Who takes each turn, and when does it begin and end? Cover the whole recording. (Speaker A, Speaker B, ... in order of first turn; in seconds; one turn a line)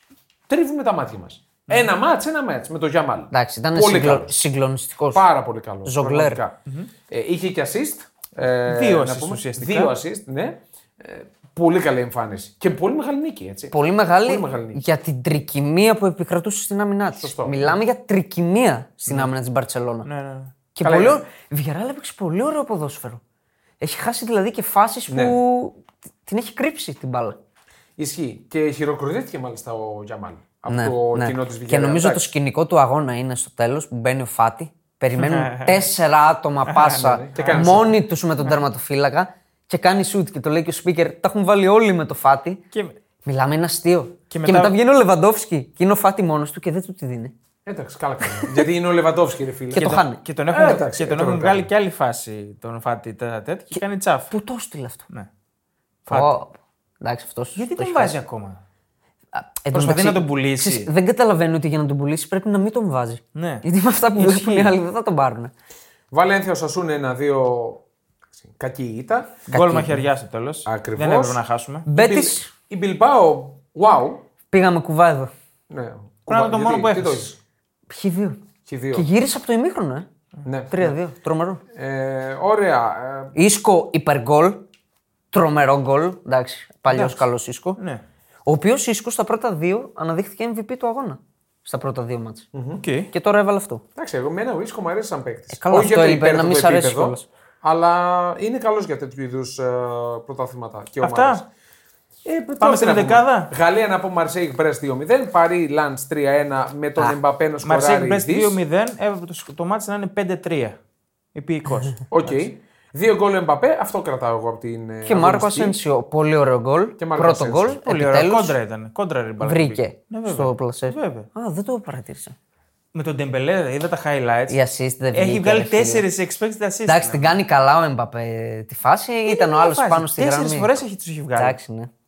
Speaker A: 0.5-4.4
Speaker B: 3.3-5.2
Speaker A: 5.1-6.6
Speaker B: 5.8-6.4
Speaker A: 7.1-14.8
Speaker C: 8.7-9.9
Speaker B: 13.7-20.1
Speaker A: 17.2-17.7
Speaker C: 20.0-20.5
Speaker B: 20.7-23.2
Speaker A: 20.8-21.2
Speaker B: 23.8-27.4
Speaker A: 25.1-25.4
Speaker A: 28.0-32.2
Speaker B: 30.7-42.6
Speaker C: 35.2-35.9
Speaker C: 36.7-37.9
Speaker A: 36.9-37.9
Speaker C: 42.7-43.0
Speaker B: 43.2-47.3
Speaker C: 44.3-44.7
Speaker A: 47.6-50.0
Speaker B: 49.7-50.2
Speaker C: 49.7-54.3
Speaker A: 50.5-51.7
Speaker B: 54.3-55.0
Speaker C: 56.0-56.3
Speaker B: 56.1-58.2
Speaker C: 57.5-58.6
Speaker B: 59.3-65.5
Speaker C: 59.7-60.9
Speaker C: 63.3-63.6
Speaker C: 64.2-64.7
Speaker A: 66.1-67.8
Speaker A: 68.5-69.4
Speaker B: 69.5-70.0
Speaker C: 69.5-71.8
Speaker A: 70.7-74.2
Speaker B: 71.8-72.5
Speaker B: 74.5-75.3
Speaker A: 75.7-77.3
Speaker C: 76.3-77.3
Speaker B: 77.9-78.4
Speaker A: 78.7-79.1
Speaker B: 78.9-80.1
Speaker A: 80.4-80.9
Speaker B: 80.7-81.6
Speaker A: 81.7-83.3
Speaker B: 83.3-84.6
Speaker B: 85.3-87.8
Speaker C: 86.9-87.2
Speaker C: 87.8-88.0
Speaker B: 88.5-92.5
Speaker A: 92.5-92.8
Speaker C: 92.8-93.1
Speaker B: 93.1-93.8
Speaker A: 94.0-101.4
Speaker B: 95.5-97.2
Speaker C: 101.0-101.4
Speaker A: 102.2-108.6
Speaker C: 102.6-103.5
Speaker C: 107.6-110.8
Speaker C: 111.3-112.5
Speaker A: 112.1-115.8
Speaker B: 115.0-118.5
Speaker A: 117.0-117.8
Speaker C: 117.8-121.3
Speaker B: 119.4-122.3
Speaker C: 122.9-124.6
Speaker B: 124.5-126.0
Speaker C: 125.1-127.4
Speaker B: 126.8-130.8
Speaker C: 129.3-131.6
Speaker B: 131.3-131.9